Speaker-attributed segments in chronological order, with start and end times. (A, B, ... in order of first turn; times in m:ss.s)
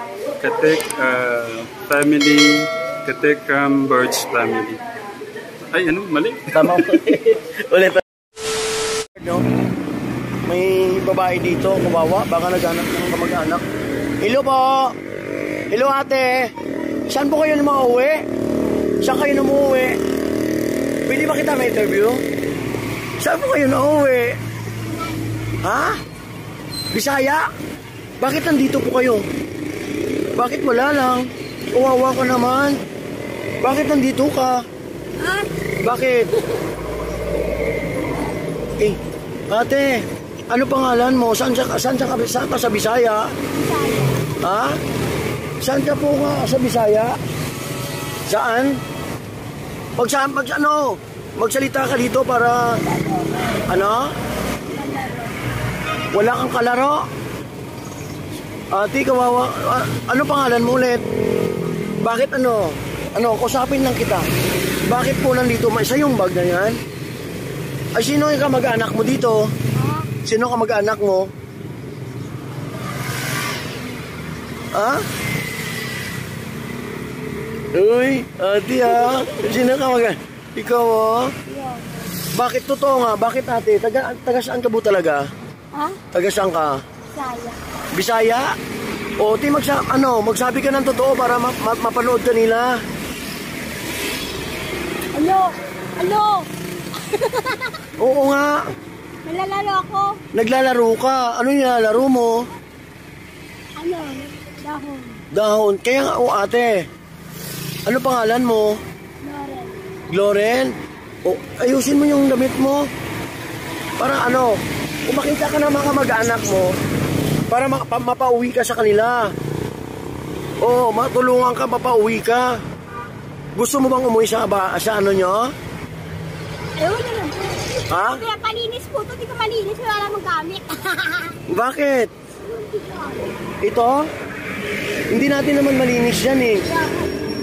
0:00.4-0:04.8 A
0:05.7-0:07.0 A
0:06.5-0:08.0 B
0:09.2-0:09.4 B
0:10.5-0:13.6 B
0:14.2-0:14.9 B
0:15.7-0:16.5 B
0:17.1-0:18.2 B
0:19.0-0:20.0 B
0:21.1-0:22.2 B
0:23.2-0:24.4 B
0:25.6-0:26.0 B
0:26.9-0:27.5 B
0:28.2-0:29.2 B
0:30.4-0:32.8 B
0:33.6-0:34.6 B
0:35.2-0:35.6 C
0:35.8-0:36.3 B
0:39.5-0:43.3 B
0:43.4-0:44.3 C
0:44.4-0:44.8 B
0:45.6-0:47.1 B
0:48.3-0:48.8 B
0:50.0-0:52.8 B
0:52.9-0:53.6 C
0:53.7-0:54.1 B
0:54.7-0:55.3 C
0:56.1-0:57.0 B
0:58.7-1:01.0 B
1:02.0-1:04.3 B
1:04.9-1:06.8 B
1:08.0-1:09.4 B
1:09.7-1:10.1 C
1:10.2-1:11.3 B
1:14.7-1:15.0 B
1:17.7-1:21.3 B
1:18.8-1:19.3 C
1:21.4-1:22.0 C
1:22.4-1:25.2 B
1:25.7-1:26.0 C
1:26.1-1:26.8 B
1:27.1-1:27.6 C
1:27.9-1:28.5 B
1:29.2-1:32.8 B
1:35.1-1:37.9 C
1:38.0-1:38.6 B
1:39.2-1:40.2 C
1:40.3-1:42.5 B
1:43.8-1:45.2 C
1:45.3-1:46.9 B
1:47.8-1:48.8 B
1:49.2-1:49.8 C
1:50.1-1:52.9 B
1:54.0-1:56.7 B
1:57.5-1:59.3 B
2:00.6-2:02.5 B
2:03.6-2:05.5 B
2:06.8-2:11.4 C
2:07.9-2:08.2 B
2:11.5-2:12.1 B
2:12.4-2:13.3 C
2:13.6-2:14.1 B
2:15.1-2:16.7 B
2:16.6-2:17.1 C